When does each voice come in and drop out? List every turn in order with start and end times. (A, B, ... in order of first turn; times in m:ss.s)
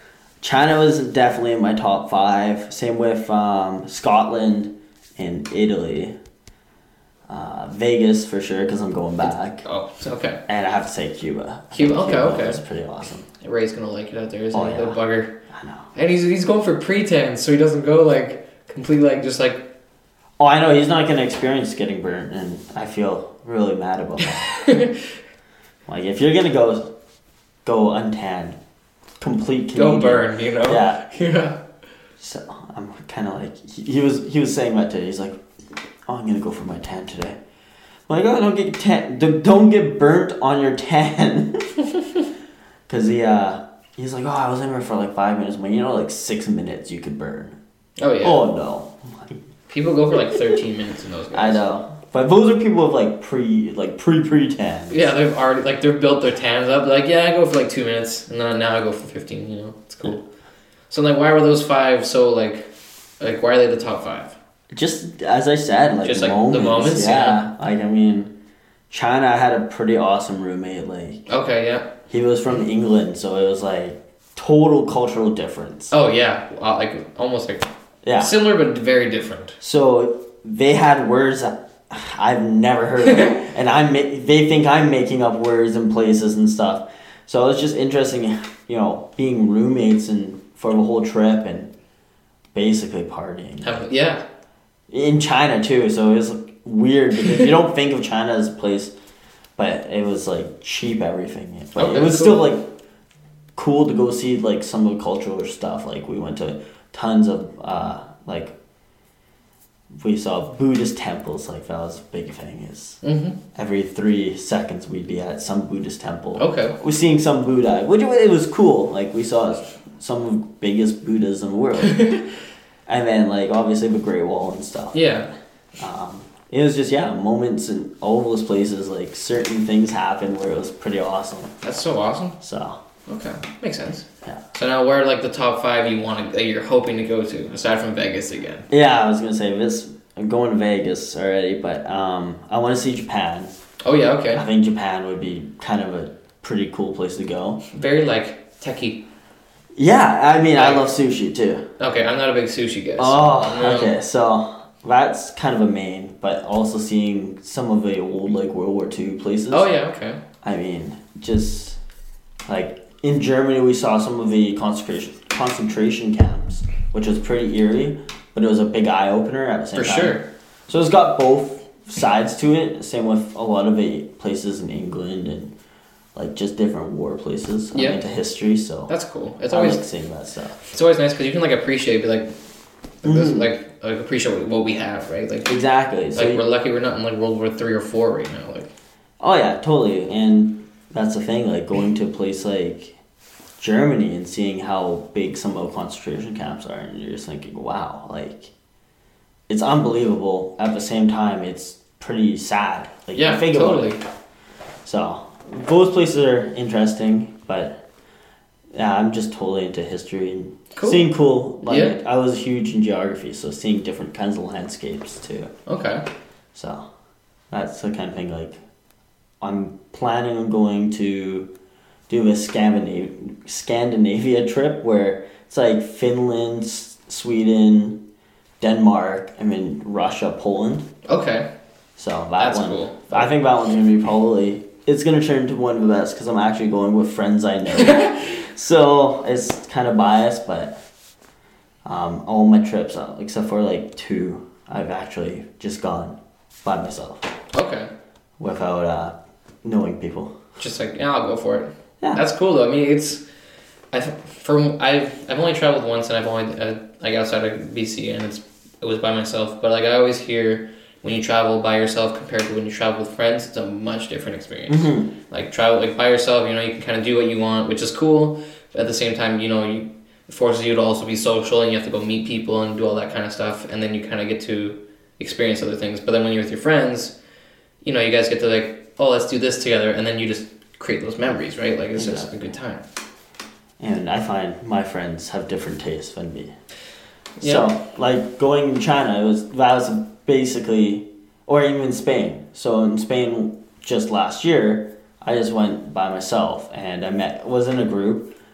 0:00.4-0:06.1 A
0:07.3-0:09.6 A
0:09.6-0:10.4 B
0:10.5-0:13.3 A
0:11.7-0:12.6 B
0:13.4-0:15.3 B
0:14.5-0:15.0 A
0:15.5-0:15.9 A
0:16.0-0:19.6 B
0:20.4-0:24.5 A
0:24.2-0:25.1 B
0:25.9-0:26.9 A
0:27.6-0:28.6 A
0:29.2-0:31.0 A
0:29.8-0:31.6 B
0:32.2-0:35.4 A
0:36.1-0:37.4 A
0:38.1-0:41.7 A
0:42.9-0:47.6 A
0:48.0-0:48.4 B
0:48.2-0:49.4 A
0:49.7-0:51.6 B
0:51.3-0:55.0 A
0:54.9-1:00.2 B
1:00.9-1:02.7 B
1:03.2-1:04.4 B
1:04.7-1:08.3 A
1:06.0-1:07.4 B
1:08.9-1:11.3 A
1:11.3-1:11.9 B
1:12.1-1:15.9 A
1:15.9-1:19.6 B
1:18.0-1:18.3 A
1:19.6-1:31.7 A
1:23.1-1:23.4 B
1:32.5-1:33.8 A
1:33.6-1:34.2 B
1:34.9-1:38.9 A
1:39.6-1:42.7 A
1:41.8-1:42.5 B
1:43.6-1:48.5 A
1:50.0-1:53.0 A
1:53.0-1:53.4 B
1:53.6-2:02.1 A
1:56.4-1:56.8 B
2:01.8-2:02.3 B
2:02.9-2:05.2 A
2:04.9-2:05.3 B
2:05.8-2:11.5 A
2:11.6-2:12.4 B
2:12.4-2:12.8 A
2:13.1-2:18.7 B
2:18.7-2:23.5 A
2:23.8-2:24.4 B
2:24.3-2:27.6 A
2:27.7-2:29.0 B
2:29.8-2:31.6 A
2:30.5-2:30.8 B
2:31.8-2:34.0 B
2:33.0-2:39.7 A
2:39.5-2:40.2 B
2:40.4-2:41.8 A
2:42.5-2:55.5 A
2:49.7-2:50.2 B
2:56.2-2:58.9 A
2:57.7-2:58.0 B
2:58.9-2:59.8 B
2:59.5-3:00.6 A
3:00.7-3:02.3 B
3:03.0-3:05.6 B
3:03.0-3:03.5 A
3:05.4-3:06.4 A
3:06.2-3:08.7 B
3:09.2-3:13.0 A
3:13.6-3:18.5 A
3:19.5-3:24.0 A
3:23.2-3:24.0 B
3:24.8-3:27.7 A
3:28.7-3:35.5 A
3:30.7-3:31.1 B
3:31.6-3:32.0 B
3:35.7-3:36.0 B
3:36.5-3:36.8 A
3:37.5-3:38.6 A
3:39.4-3:41.5 A
3:42.1-3:48.0 A
3:48.6-3:50.8 A
3:51.1-3:51.5 B
3:52.0-4:00.8 A
3:52.4-3:53.4 B
3:57.8-3:58.2 B
4:01.8-4:07.2 A
4:07.5-4:07.9 B
4:08.4-4:10.4 A
4:10.6-4:13.2 B
4:13.9-4:37.2 B
4:24.7-4:25.1 A
4:37.8-4:42.8 B
4:42.0-4:42.3 A
4:43.8-4:46.5 A
4:47.4-4:47.7 B
4:47.4-4:58.3 A